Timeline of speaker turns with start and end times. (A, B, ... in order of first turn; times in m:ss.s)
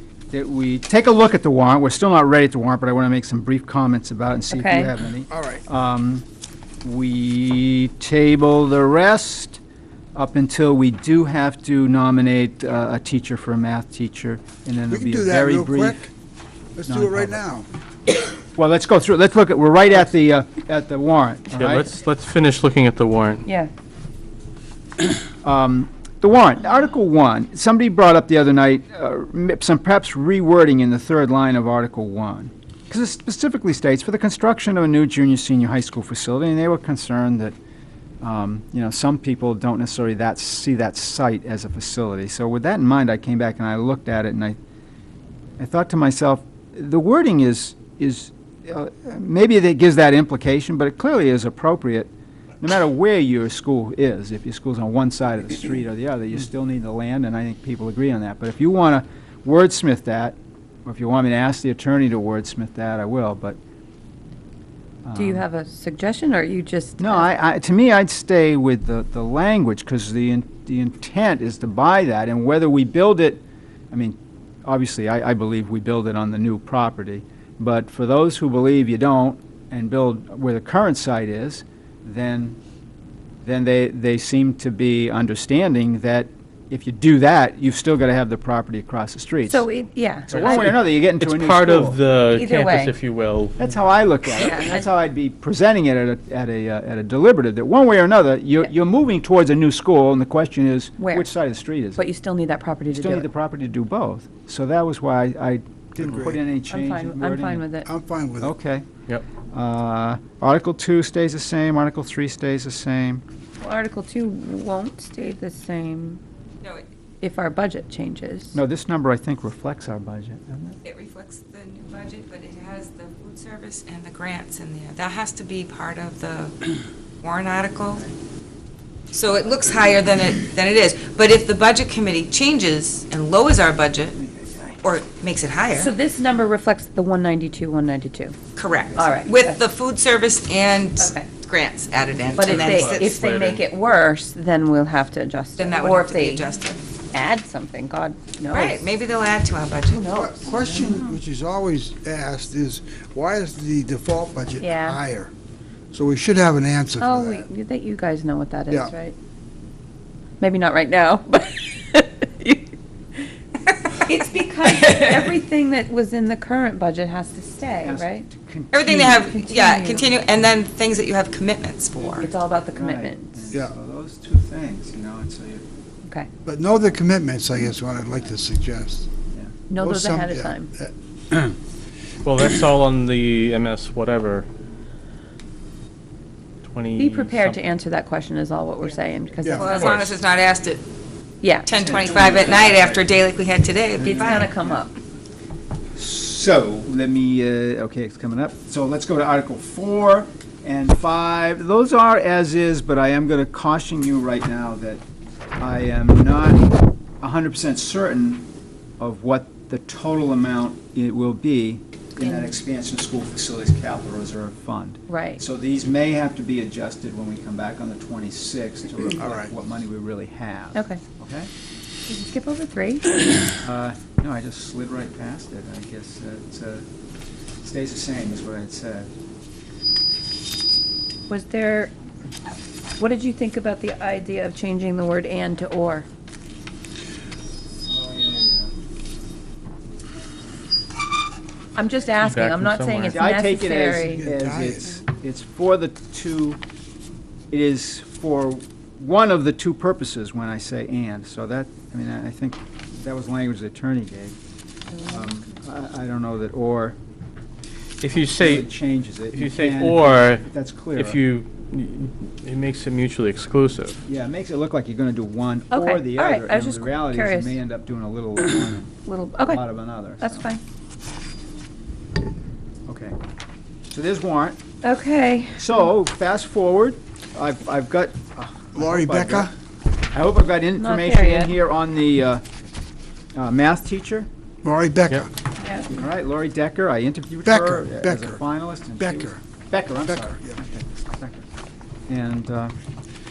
0:00.3-0:06.3 A
0:04.5-0:04.9 B
0:05.3-0:05.6 C
0:06.8-0:09.6 A
0:10.2-0:16.1 A
0:14.9-0:16.1 C
0:16.8-0:17.7 C
0:16.9-0:17.4 A
0:18.6-0:22.0 A
0:21.6-0:23.4 D
0:23.4-0:23.7 B
0:25.4-0:37.6 A
0:38.2-0:44.6 A
0:45.6-1:03.6 A
1:05.0-1:05.4 A
1:05.2-1:07.3 B
1:07.0-1:22.6 A
1:23.4-1:29.7 A
1:29.5-1:30.6 B
1:30.3-1:32.0 A
1:30.3-1:33.7 D
1:32.3-1:33.0 B
1:33.6-1:42.0 A
1:34.3-1:34.9 B
1:41.0-1:41.3 B
1:42.0-1:43.3 B
1:42.9-1:47.6 A
1:46.0-1:46.4 C
1:46.7-1:47.9 B
1:47.8-1:48.5 C
1:48.4-1:48.9 A
1:49.5-1:53.2 A
1:53.6-1:56.2 B
1:57.2-1:58.6 B
1:58.5-2:00.8 A
2:00.8-2:06.5 E
2:07.2-2:08.0 E
2:09.1-2:14.2 E
2:14.2-2:14.8 A
2:14.8-2:15.9 E
2:15.7-2:18.4 B
2:18.6-2:23.2 E
2:19.0-2:19.6 B
2:21.0-2:21.3 B
2:22.4-2:26.5 B
2:22.4-2:23.6 D
2:25.6-2:26.8 E
2:27.1-2:28.8 B
2:28.5-2:30.1 E
2:29.9-2:31.2 B
2:30.1-2:35.3 C
2:34.6-2:35.0 B
2:35.9-2:37.5 C
2:37.0-2:39.2 B
2:40.4-2:43.4 B
2:43.9-2:48.3 B
2:44.6-2:45.3 E
2:47.8-2:49.3 A
2:48.7-2:52.3 E
2:48.8-2:50.1 B
2:52.0-2:55.6 A
2:52.2-2:53.4 B
2:56.4-2:59.1 C
2:59.7-3:00.7 B
2:59.8-3:01.6 C
3:02.2-3:04.5 D
3:06.6-3:07.6 D
3:07.0-3:09.9 B
3:09.4-3:09.7 C
3:09.4-3:10.8 E
3:09.7-3:10.1 D
3:11.4-3:11.7 B
3:11.7-3:14.5 E
3:11.8-3:13.0 A
3:14.0-3:14.8 A
3:14.0-3:14.9 B
3:16.0-3:25.0 A
3:25.6-3:26.7 A
3:27.2-3:28.5 A
3:29.0-3:41.5 A
3:32.2-3:32.5 B
3:35.1-3:35.4 B
3:39.2-3:39.5 C
3:40.7-3:41.0 B
3:42.1-3:43.1 B
3:43.6-3:46.9 A
3:47.6-3:49.1 A
3:51.3-3:51.9 B
3:53.0-3:56.1 B
3:57.9-3:58.7 A
4:01.8-4:04.3 B
4:02.2-4:03.2 D
4:03.1-4:06.6 A
4:04.0-4:05.0 C
4:07.5-4:14.4 A
4:14.9-4:15.5 B
4:15.0-4:17.0 A
4:18.0-4:18.7 D
4:18.4-4:21.2 A
4:19.3-4:20.4 D
4:21.0-4:24.0 D
4:24.1-4:30.5 A
4:25.7-4:27.6 B
4:29.1-4:29.6 B
4:30.2-4:30.6 B
4:32.9-4:33.2 A
4:33.9-4:34.6 A
4:34.8-4:35.7 B
4:35.6-4:39.5 A
4:38.8-4:39.5 C
4:40.1-4:42.4 A
4:40.8-4:41.5 B
4:43.4-4:44.3 A
4:44.6-4:45.3 C
4:45.6-4:45.9 B
4:45.9-4:51.4 A
4:47.4-4:48.4 C
4:49.0-4:49.4 C
4:50.0-4:50.6 C
4:52.1-4:52.7 A